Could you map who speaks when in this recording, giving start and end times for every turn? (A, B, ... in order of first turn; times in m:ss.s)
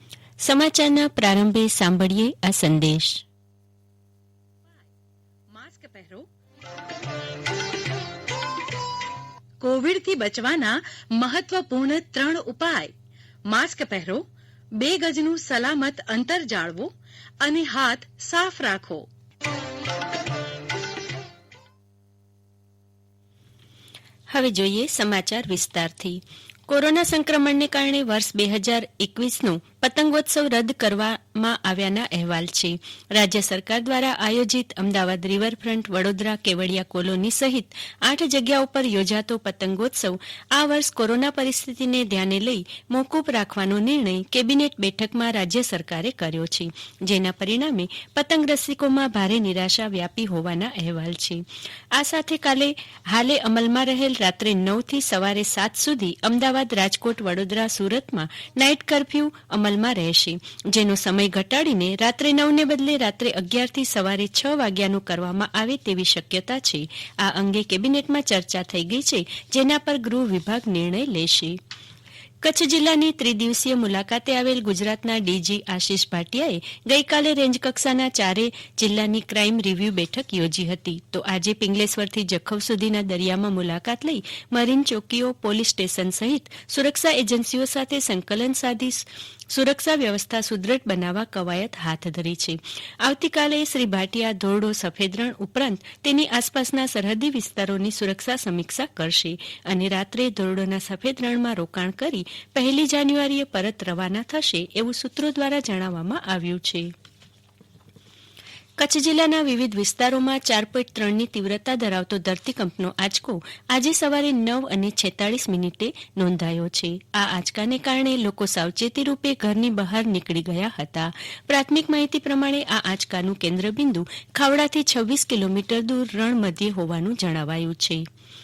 0:00.4-0:03.2 A
0:05.6-0:06.2 B
0:05.6-0:06.1 A
0:09.6-0:12.9 A
0:09.7-0:09.9 B
0:11.3-0:12.8 B
0:13.5-0:14.2 B
0:13.6-0:14.2 A
0:14.8-0:16.8 B
0:15.5-0:16.8 A
0:17.4-0:19.0 B
0:17.7-0:18.3 A
0:24.3-1:11.6 A
1:12.4-1:46.9 A
1:48.8-2:08.0 A